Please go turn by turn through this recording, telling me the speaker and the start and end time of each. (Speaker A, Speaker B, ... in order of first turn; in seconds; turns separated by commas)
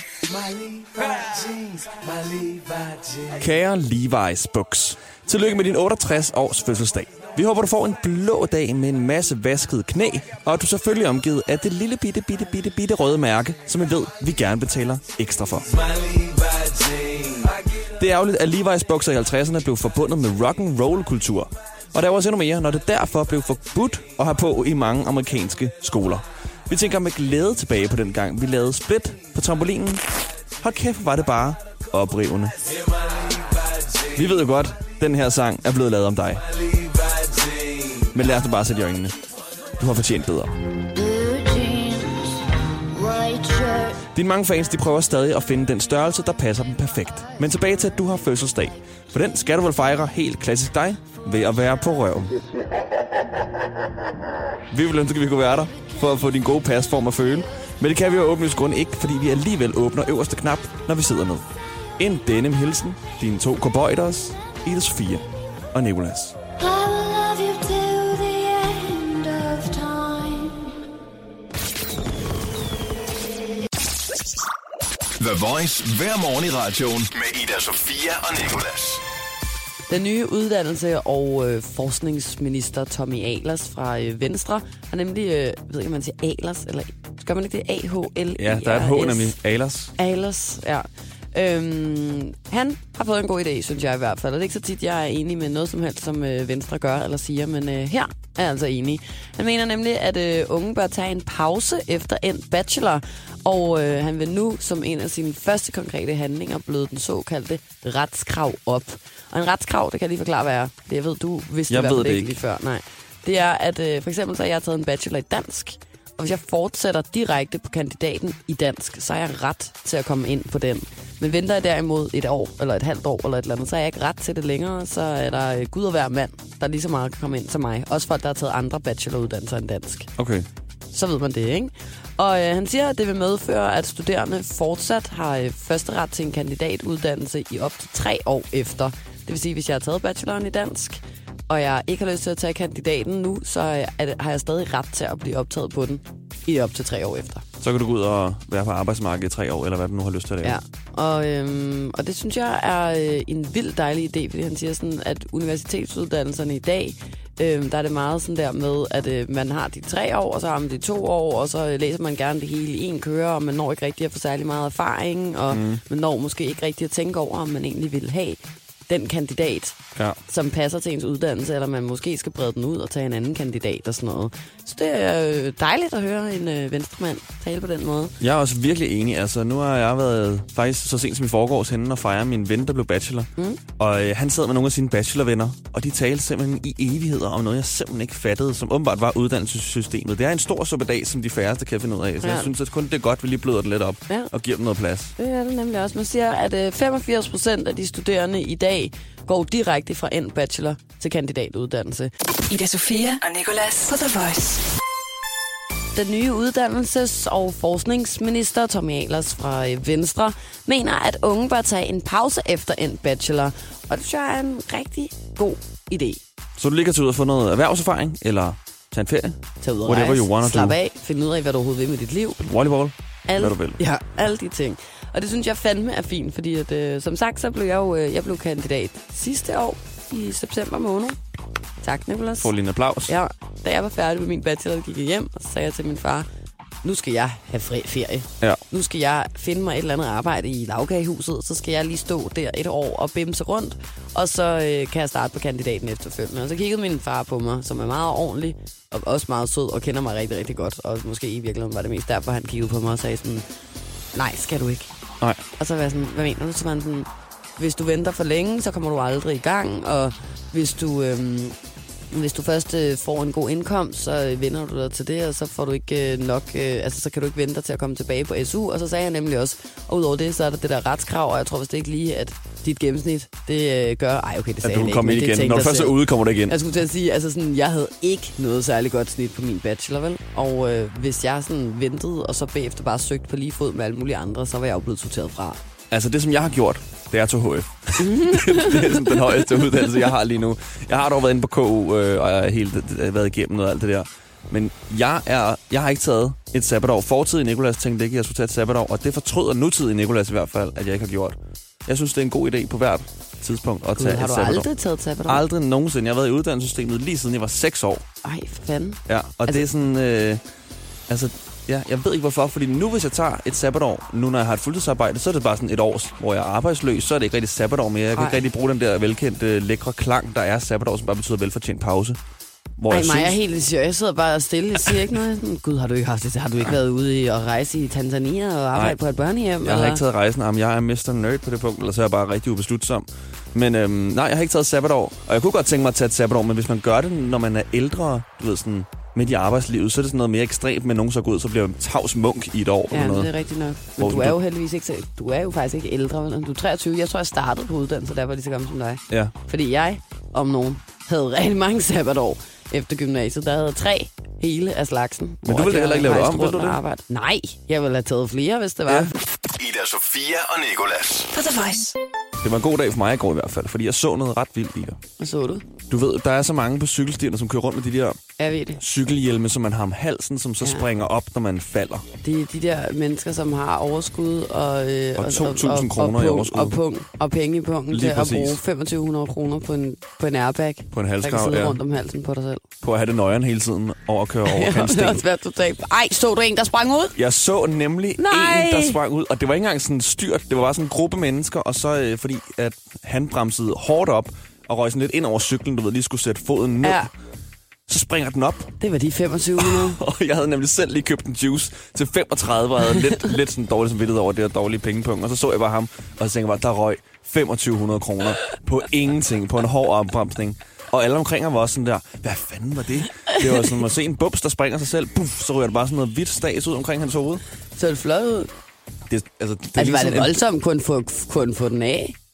Speaker A: 0.3-3.3, Speaker B: 3.3-15.8, Speaker A: 16.4-17.1, Speaker B: 17.7-30.0, Speaker B: 30.6-32.7, Speaker B: 34.1-36.5, Speaker B: 37.9-39.1, Speaker B: 39.8-40.5, Speaker C: 41.1-42.1, Speaker C: 43.0-43.9, Speaker B: 44.1-52.3, Speaker B: 54.7-61.4, Speaker B: 62.0-66.4, Speaker D: 66.7-70.3, Speaker C: 66.7-68.0, Speaker E: 75.2-79.0, Speaker C: 79.9-89.3, Speaker B: 88.4-89.9, Speaker C: 90.0-130.1, Speaker B: 111.7-112.4, Speaker B: 130.2-130.5, Speaker C: 130.9-147.4, Speaker B: 147.6-150.6, Speaker C: 150.4-178.2, Speaker B: 165.5-165.8, Speaker B: 178.2-195.1, Speaker C: 192.2-192.5, Speaker C: 195.2-202.1, Speaker D: 202.5-204.6, Speaker C: 205.9-216.2, Speaker B: 216.6-220.8, Speaker C: 219.6-222.4, Speaker B: 222.4-223.8, Speaker C: 223.3-231.2, Speaker C: 231.8-232.5, Speaker B: 232.4-233.2, Speaker C: 233.1-236.3, Speaker C: 236.8-253.5, Speaker C: 254.1-254.9, Speaker C: 255.5-261.6, Speaker C: 262.1-285.6, Speaker B: 274.6-276.6, Speaker B: 285.9-304.7, Speaker C: 288.0-289.9, Speaker C: 303.9-305.4, Speaker B: 305.3-308.0, Speaker C: 308.2-309.6, Speaker B: 309.1-310.4, Speaker B: 311.1-322.2, Speaker C: 318.1-318.4, Speaker B: 322.8-323.4, Speaker C: 322.9-330.0, Speaker B: 329.6-343.3, Speaker C: 342.9-359.1, Speaker B: 344.0-344.4, Speaker B: 355.4-356.8, Speaker B: 358.9-359.1, Speaker E: 359.5-361.3, Speaker D: 361.3-362.0, Speaker B: 362.4-365.0, Speaker C: 365.2-365.6, Speaker B: 365.9-368.2, Speaker C: 368.4-368.8, Speaker B: 368.8-372.1, Speaker C: 372.2-382.6, Speaker B: 375.2-376.8, Speaker B: 377.9-378.6, Speaker B: 380.9-381.8, Speaker B: 382.8-385.2, Speaker C: 384.5-387.2, Speaker B: 387.2-397.1, Speaker C: 388.2-389.0, Speaker C: 396.8-397.1, Speaker B: 397.9-398.7, Speaker C: 398.8-400.0, Speaker B: 399.6-417.4, Speaker C: 417.8-418.5, Speaker B: 419.1-420.4, Speaker C: 419.8-422.2